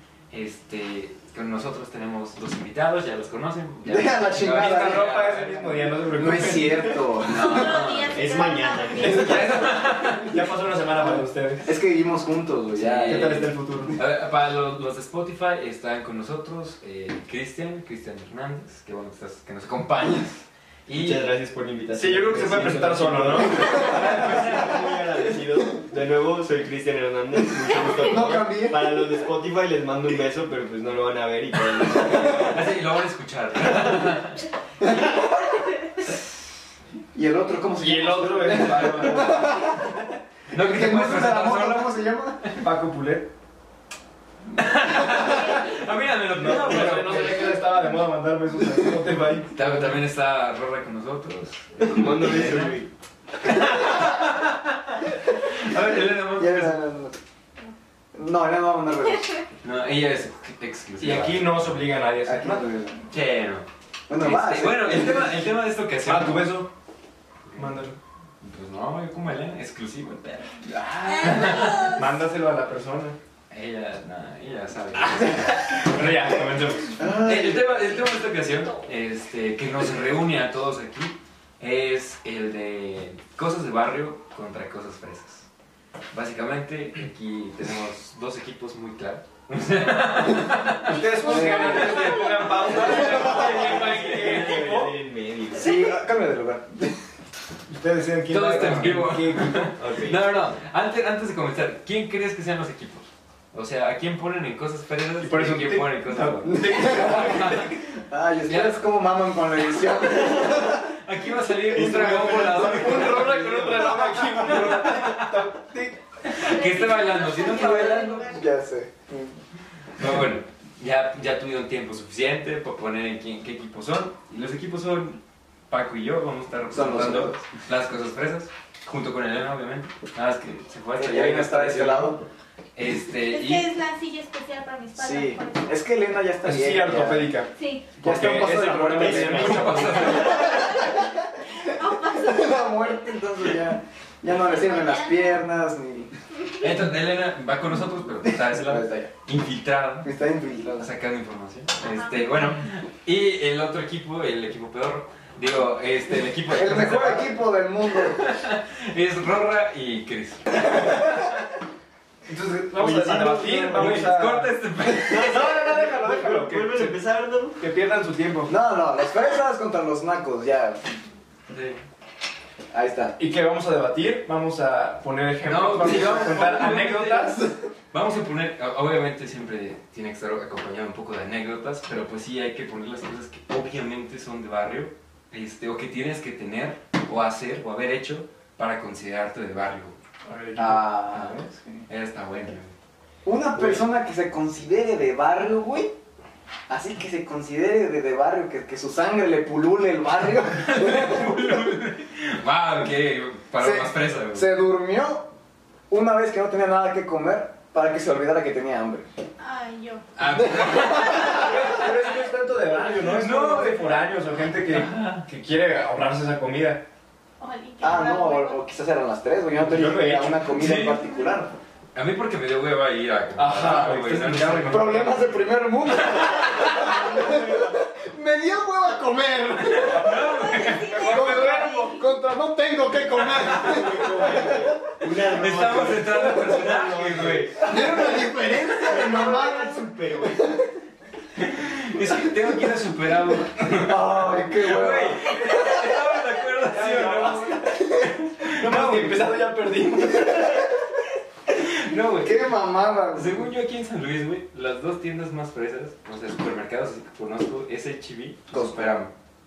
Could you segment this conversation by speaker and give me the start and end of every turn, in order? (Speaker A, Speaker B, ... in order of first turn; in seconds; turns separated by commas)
Speaker A: 0.3-6.0, Speaker B: 3.9-5.1, Speaker C: 4.5-7.1, Speaker B: 6.1-7.8, Speaker A: 7.2-8.3, Speaker D: 7.2-9.6, Speaker E: 8.1-9.4, Speaker C: 9.0-11.7, Speaker A: 9.0-10.4, Speaker B: 11.0-13.4, Speaker A: 12.7-21.3, Speaker C: 13.1-14.0, Speaker E: 20.9-32.6, Speaker C: 21.9-24.6, Speaker A: 23.8-24.8, Speaker B: 27.6-29.0, Speaker A: 32.1-34.4, Speaker B: 34.8-35.3, Speaker B: 37.1-39.9, Speaker C: 37.8-39.7, Speaker A: 38.5-39.3, Speaker A: 40.5-42.6, Speaker B: 40.5-42.4, Speaker C: 42.6-43.3, Speaker A: 44.5-47.6, Speaker D: 45.3-45.8, Speaker C: 46.3-50.0, Speaker E: 46.4-47.1, Speaker A: 49.5-52.8, Speaker E: 51.8-52.9, Speaker A: 53.4-56.8, Speaker B: 56.4-57.2, Speaker B: 58.1-59.4, Speaker A: 59.6-61.9, Speaker C: 61.0-62.7, Speaker B: 62.2-63.1, Speaker A: 63.1-66.6, Speaker B: 64.1-65.5, Speaker C: 66.0-66.7, Speaker A: 67.5-67.8, Speaker C: 67.6-68.0, Speaker A: 68.4-70.7, Speaker B: 70.6-71.8, Speaker D: 71.0-72.0, Speaker A: 71.2-72.0, Speaker C: 71.9-73.2, Speaker A: 73.5-75.8, Speaker C: 75.1-77.0, Speaker B: 77.0-77.9, Speaker A: 77.1-85.5, Speaker A: 86.1-91.1, Speaker D: 90.8-92.8, Speaker C: 90.9-95.0, Speaker B: 91.2-92.2, Speaker A: 92.7-94.3, Speaker B: 92.8-93.2, Speaker E: 92.9-95.8, Speaker B: 95.5-97.0, Speaker C: 97.7-99.5, Speaker A: 98.3-107.7, Speaker B: 98.5-98.8, Speaker E: 98.7-100.3, Speaker C: 105.2-107.7, Speaker B: 106.4-110.9, Speaker A: 108.5-108.8, Speaker A: 110.3-115.4, Speaker B: 111.7-114.8, Speaker C: 111.8-116.0, Speaker A: 116.2-118.2, Speaker D: 116.3-118.4, Speaker B: 117.5-119.3, Speaker A: 120.0-125.2, Speaker A: 125.7-132.2, Speaker B: 126.7-127.4, Speaker B: 131.0-132.2, Speaker A: 132.8-133.7, Speaker D: 133.3-135.8, Speaker B: 135.0-137.3, Speaker C: 136.4-140.5, Speaker D: 137.5-137.9, Speaker B: 138.0-141.0, Speaker A: 139.0-140.6, Speaker D: 140.3-143.3, Speaker B: 142.2-146.2, Speaker D: 144.3-145.4, Speaker A: 146.6-150.1, Speaker B: 148.3-149.1, Speaker B: 150.0-150.9, Speaker A: 150.8-157.3, Speaker D: 151.8-152.2, Speaker B: 156.4-158.2, Speaker A: 157.9-161.3, Speaker B: 160.5-161.1, Speaker C: 162.3-164.6, Speaker E: 162.8-164.1, Speaker A: 163.7-165.4, Speaker E: 165.0-167.6, Speaker C: 165.1-167.0, Speaker C: 167.6-168.6, Speaker B: 168.5-171.0, Speaker A: 171.5-171.8, Speaker B: 172.7-173.2, Speaker C: 173.2-177.5, Speaker A: 175.4-190.0, Speaker B: 175.8-176.7, Speaker C: 190.2-191.5, Speaker B: 190.6-191.9, Speaker A: 191.9-192.7, Speaker B: 193.2-195.9, Speaker B: 196.7-201.5, Speaker A: 200.3-204.5, Speaker B: 203.6-205.3, Speaker B: 205.9-209.1, Speaker D: 209.4-210.8, Speaker A: 210.2-211.7, Speaker B: 210.3-211.9, Speaker C: 211.1-216.8, Speaker A: 212.8-214.1, Speaker A: 214.7-215.3, Speaker D: 217.4-218.6, Speaker B: 217.8-221.5, Speaker C: 219.6-220.5, Speaker A: 220.5-221.0, Speaker A: 221.9-225.3, Speaker C: 223.4-225.4, Speaker B: 224.7-230.3, Speaker A: 225.8-226.7, Speaker E: 226.6-227.8, Speaker A: 229.7-231.3, Speaker D: 230.1-232.1, Speaker C: 230.7-232.0, Speaker B: 231.1-234.7, Speaker A: 233.2-233.9, Speaker E: 233.5-238.2, Speaker A: 235.3-237.7, Speaker B: 237.6-240.3, Speaker E: 238.8-240.4, Speaker A: 241.4-249.4, Speaker B: 243.6-245.9, Speaker C: 246.7-247.8, Speaker C: 248.4-250.7, Speaker A: 251.5-252.5, Speaker B: 252.2-253.4, Speaker A: 253.1-259.1, Speaker B: 258.5-259.0